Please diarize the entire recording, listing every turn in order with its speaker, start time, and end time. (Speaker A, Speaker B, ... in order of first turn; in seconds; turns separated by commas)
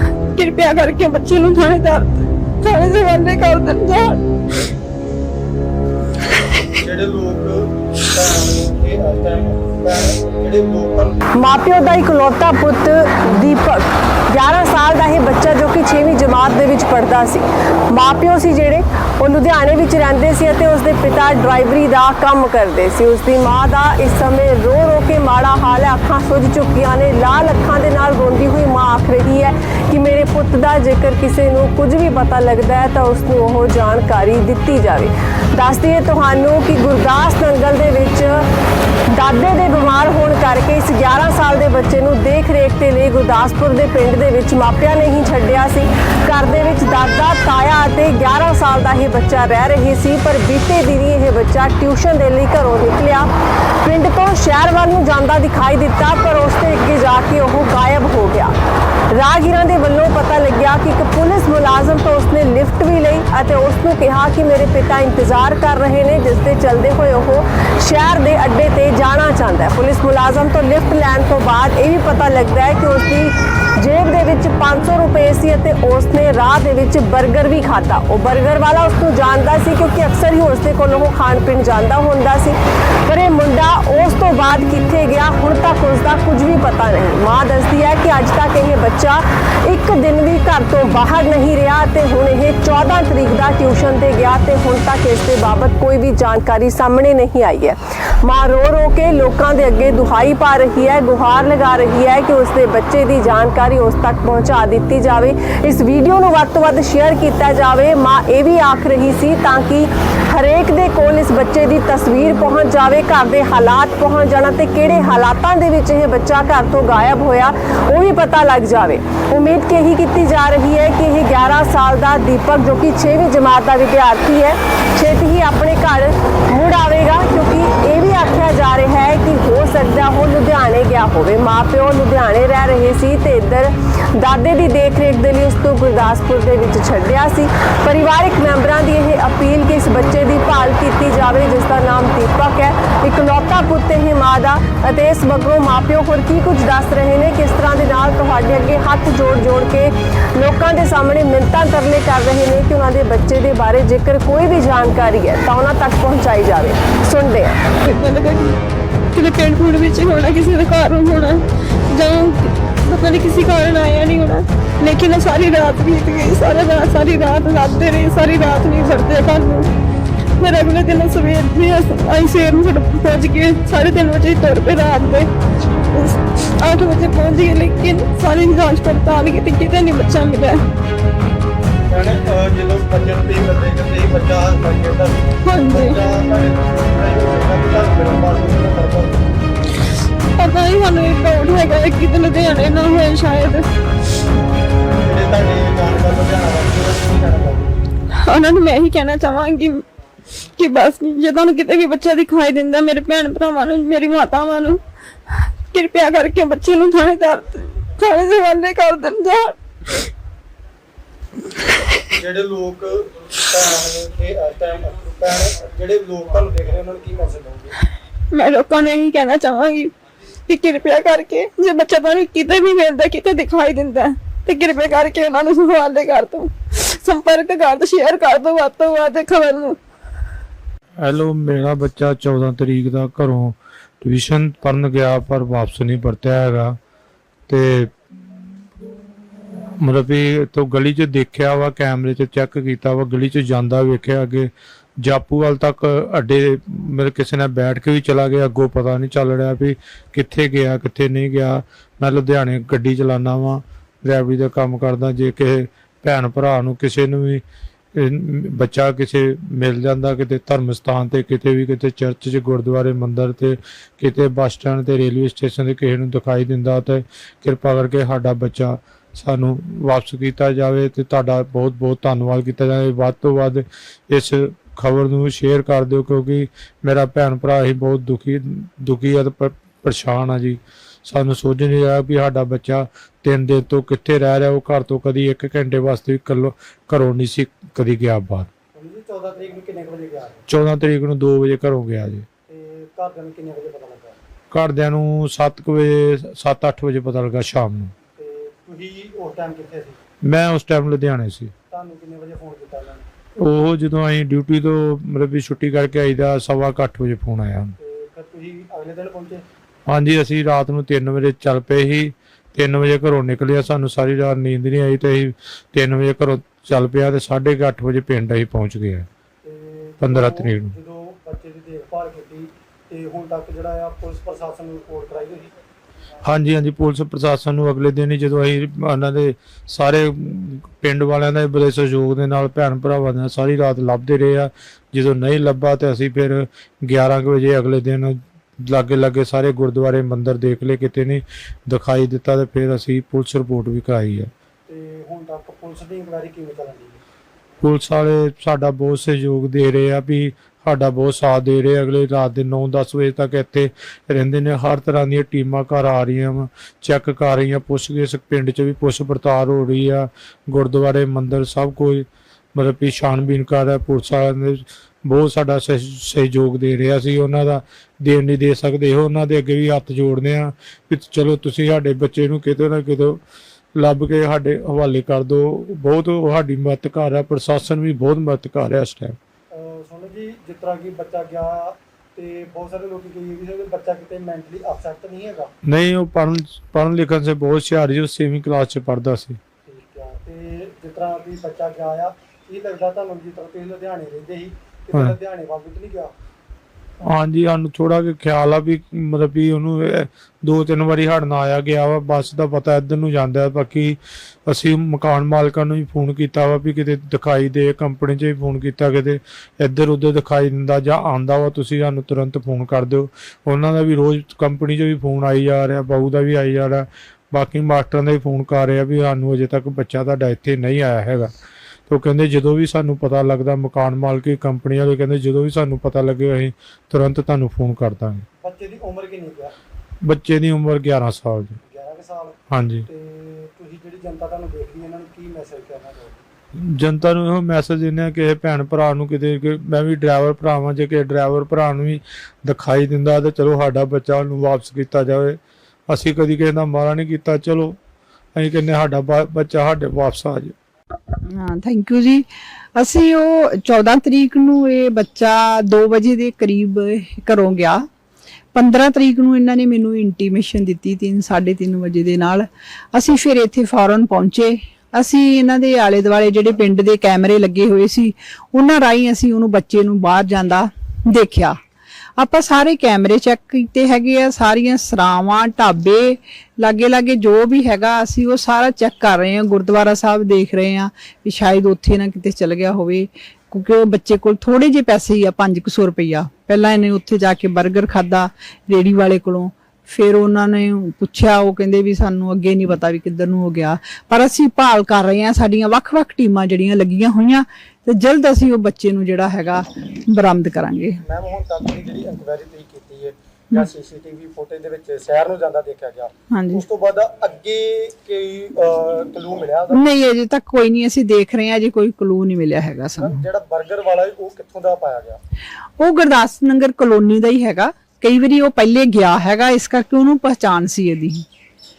Speaker A: 0.3-4.2, Speaker B: 6.8-11.2, Speaker C: 11.4-38.3, Speaker C: 39.1-53.3, Speaker C: 53.8-58.5, Speaker C: 59.1-82.5, Speaker C: 83.1-157.6, Speaker A: 157.8-158.5, Speaker A: 159.1-169.7, Speaker A: 170.4-175.3, Speaker A: 175.9-180.6, Speaker B: 181.9-189.4, Speaker A: 185.4-185.9, Speaker A: 190.4-193.7, Speaker B: 195.0-197.7, Speaker A: 198.2-199.8, Speaker A: 200.6-204.8, Speaker A: 205.7-209.6, Speaker B: 212.1-217.7, Speaker A: 218.3-219.9, Speaker A: 220.5-229.8, Speaker D: 231.0-236.8, Speaker D: 237.5-238.4, Speaker D: 239.8-257.4, Speaker D: 257.9-288.5, Speaker B: 288.7-290.4, Speaker D: 290.5-292.2, Speaker B: 292.5-294.2, Speaker D: 294.5-297.9, Speaker B: 298.1-300.0, Speaker D: 300.2-301.5, Speaker B: 301.7-303.1, Speaker D: 303.4-307.8, Speaker B: 307.8-309.4, Speaker D: 309.9-319.1, Speaker B: 319.4-325.5, Speaker D: 320.0-320.7, Speaker D: 326.2-344.3, Speaker B: 344.7-347.0, Speaker D: 347.6-373.2, Speaker D: 373.7-379.2, Speaker B: 379.5-385.5, Speaker D: 385.6-389.4, Speaker B: 389.6-396.1, Speaker D: 394.9-395.2, Speaker D: 397.0-421.3, Speaker D: 421.9-428.2, Speaker B: 428.4-429.6, Speaker D: 430.0-431.6, Speaker B: 431.6-432.4, Speaker D: 432.5-432.9, Speaker B: 432.9-436.2, Speaker D: 436.6-447.8, Speaker D: 448.4-450.5, Speaker E: 451.3-452.2, Speaker E: 452.8-457.8, Speaker E: 458.5-471.6, Speaker E: 472.2-501.0, Speaker B: 501.0-509.8, Speaker E: 506.3-506.6, Speaker E: 509.7-513.2, Speaker B: 513.0-515.2, Speaker E: 515.8-521.2